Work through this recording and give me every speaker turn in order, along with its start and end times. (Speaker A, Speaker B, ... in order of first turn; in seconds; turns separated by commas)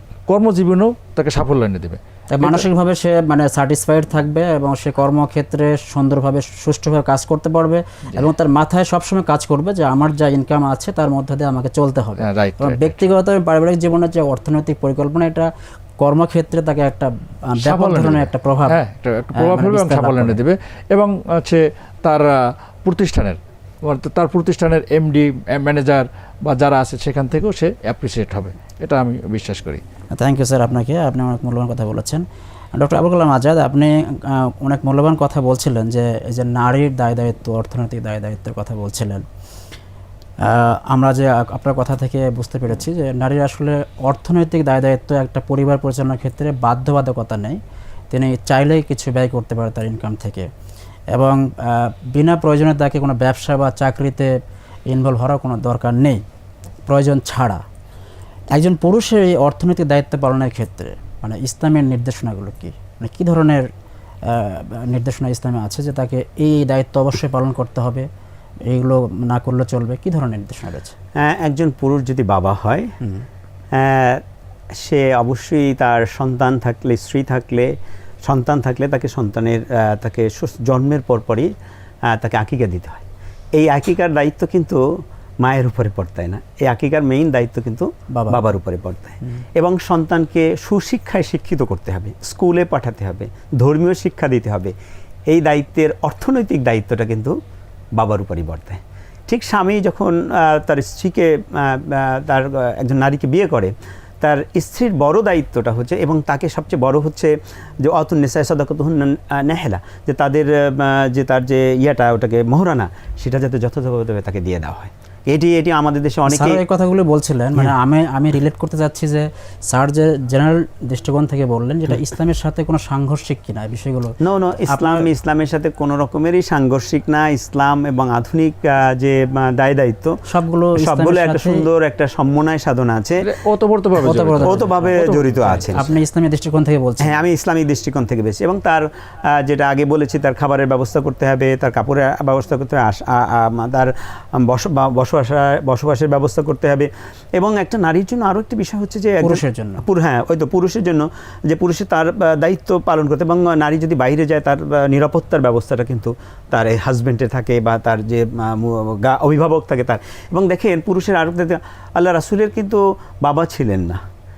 Speaker A: 0.3-2.7, Speaker B: 2.3-18.8, Speaker A: 12.2-13.1, Speaker A: 17.6-29.8, Speaker B: 19.3-20.4, Speaker B: 30.1-39.2, Speaker B: 40.4-47.6, Speaker B: 48.1-50.5, Speaker B: 51.1-54.3, Speaker B: 54.9-56.2, Speaker B: 56.9-57.6, Speaker B: 58.5-63.7, Speaker B: 64.3-68.1, Speaker B: 68.7-71.0, Speaker C: 71.2-72.9, Speaker C: 73.8-74.2, Speaker C: 74.8-77.8, Speaker C: 78.3-81.5, Speaker C: 82.1-83.0, Speaker C: 83.6-84.8, Speaker C: 85.4-94.7, Speaker B: 88.1-88.4, Speaker C: 95.3-97.3, Speaker C: 98.0-107.3, Speaker C: 107.8-116.6, Speaker B: 116.3-124.2, Speaker C: 124.2-130.1, Speaker B: 124.7-125.1, Speaker B: 130.3-131.6, Speaker C: 130.8-133.3, Speaker A: 133.2-135.7, Speaker B: 134.0-134.9, Speaker C: 134.4-135.8, Speaker B: 135.5-137.2, Speaker C: 137.1-143.9, Speaker C: 144.4-164.0, Speaker B: 149.2-149.8